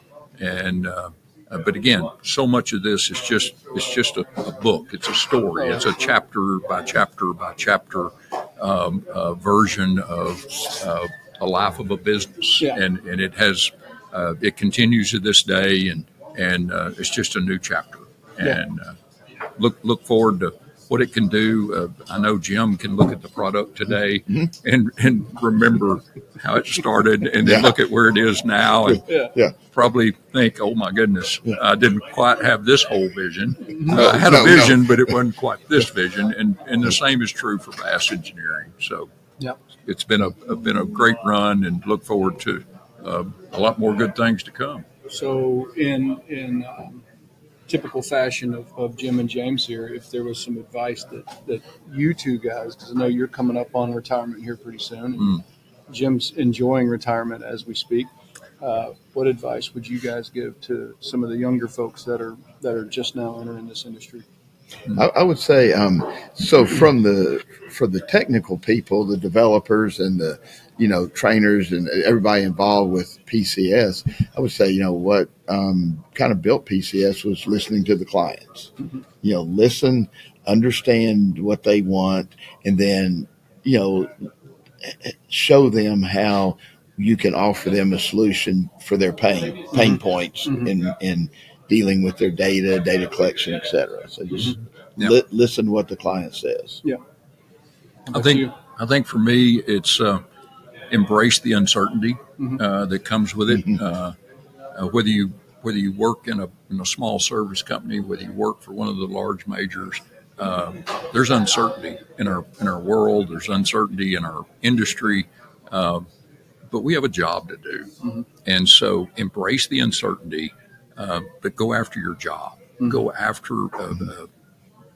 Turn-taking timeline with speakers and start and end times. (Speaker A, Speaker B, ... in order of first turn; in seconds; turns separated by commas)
Speaker A: 0.4-18.9, Speaker B: 5.6-5.8, Speaker A: 19.6-29.0, Speaker C: 27.4-27.7, Speaker C: 28.9-29.5, Speaker B: 29.1-29.3, Speaker A: 29.6-39.1, Speaker B: 33.7-34.0, Speaker C: 33.9-34.8, Speaker A: 39.9-44.8, Speaker B: 45.1-47.0, Speaker B: 47.7-64.2, Speaker C: 64.9-78.7, Speaker C: 79.2-84.3, Speaker C: 84.8-96.8, Speaker B: 98.1-98.5, Speaker A: 98.1-100.2, Speaker A: 100.9-104.2, Speaker A: 104.7-116.1, Speaker A: 116.7-117.9, Speaker A: 118.4-124.3